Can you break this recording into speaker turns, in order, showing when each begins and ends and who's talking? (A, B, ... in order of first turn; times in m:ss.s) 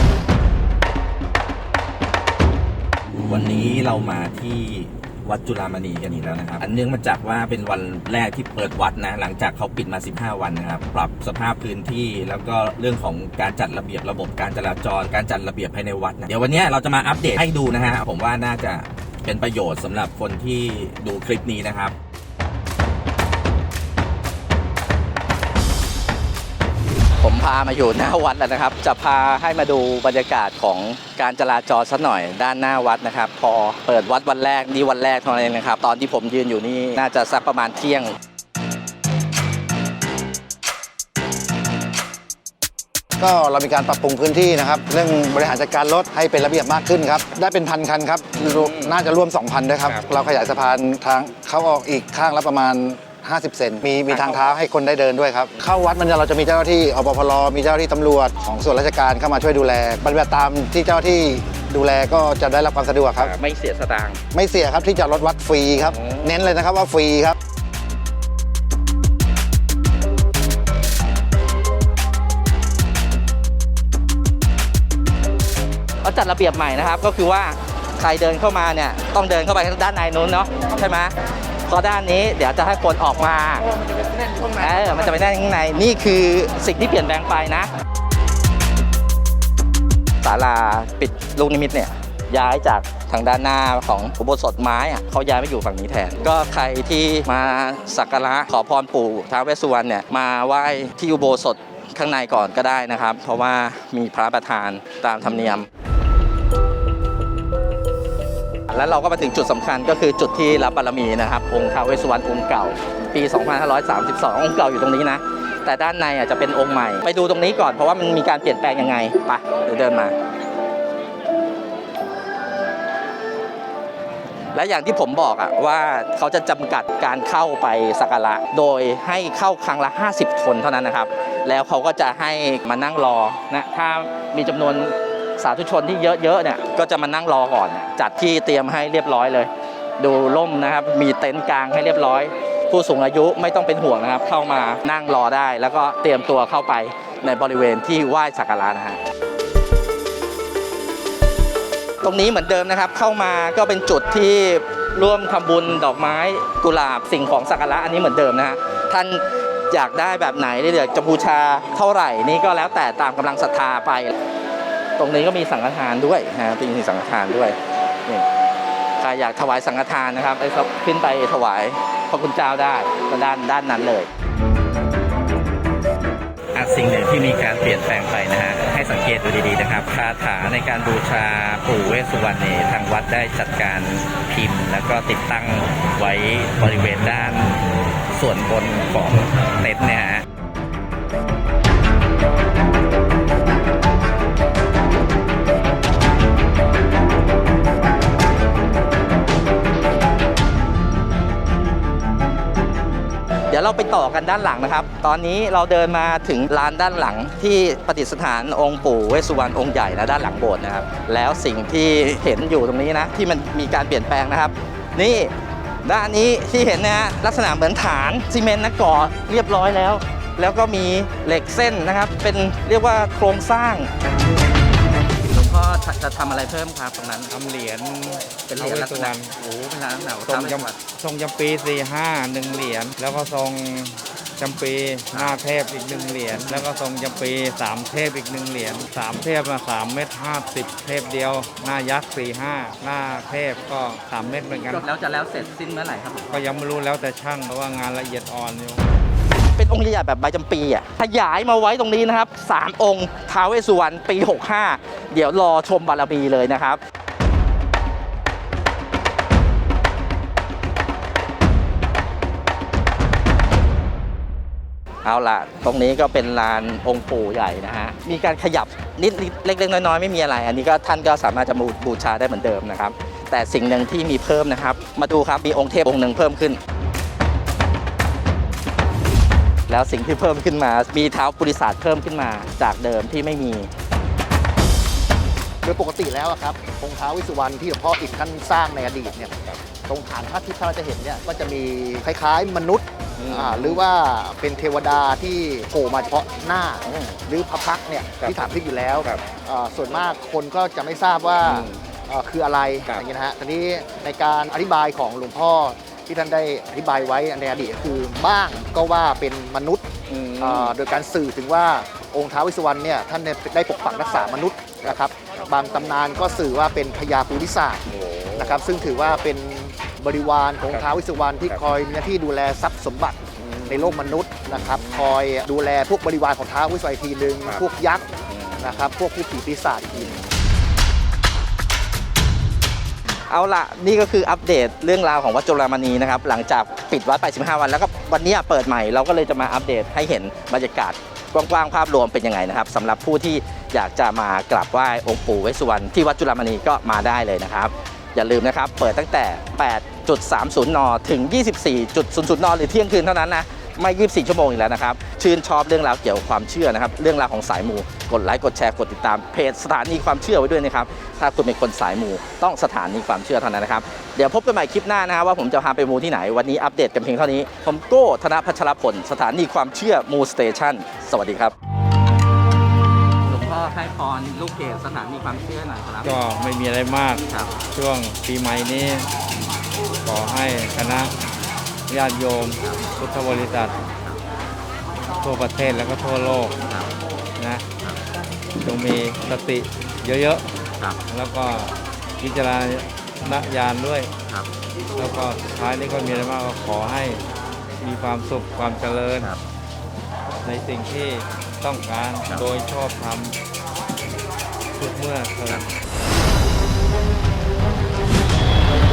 0:03.3-0:21.9 A
0:27.2-0:38.1 B
0:43.2-1:03.4 C
0:48.3-0:49.0 B
0:54.1-0:54.6 B
1:03.2-1:04.2 B
1:04.3-1:07.4 C
1:05.9-1:06.4 B
1:16.0-1:21.2 B
1:21.7-1:23.7 B
1:24.3-1:27.7 B
1:30.2-1:45.7 B
1:48.7-2:00.2 B
2:04.5-2:29.0 B
2:32.0-2:44.2 B
2:45.0-2:48.3 B
2:49.0-2:54.1 B
2:56.5-3:10.2 B
3:23.5-3:35.3 B
3:35.8-3:43.9 B
3:45.2-3:47.3 B
3:47.3-3:49.4 D
3:48.5-3:50.8 B
3:50.2-4:04.9 D
3:55.1-3:55.4 B
4:04.7-4:06.5 B
4:06.3-4:08.9 D
4:09.6-4:16.8 B
4:25.0-4:36.6 B
4:39.7-4:43.7 B
4:45.6-5:09.8 E
4:53.2-4:53.8 B
4:56.9-4:57.2 B
5:01.4-5:01.8 B
5:10.1-5:10.7 B
5:10.4-5:30.2 E
5:18.0-5:18.6 B
5:23.7-5:24.0 B
5:24.7-5:25.0 B
5:28.3-5:28.9 B
5:30.0-5:30.3 B
5:33.3-6:11.5 B
6:13.2-6:16.2 B
6:16.0-6:19.1 D
6:17.3-6:17.5 B
6:20.0-6:21.1 D
6:21.9-6:23.8 D
6:25.2-6:26.6 D
6:27.4-6:27.6 D
6:28.6-6:30.5 D
6:31.1-6:34.1 D
6:35.0-6:37.2 D
6:37.8-6:39.3 D
6:40.4-6:43.4 D
6:44.8-6:45.7 D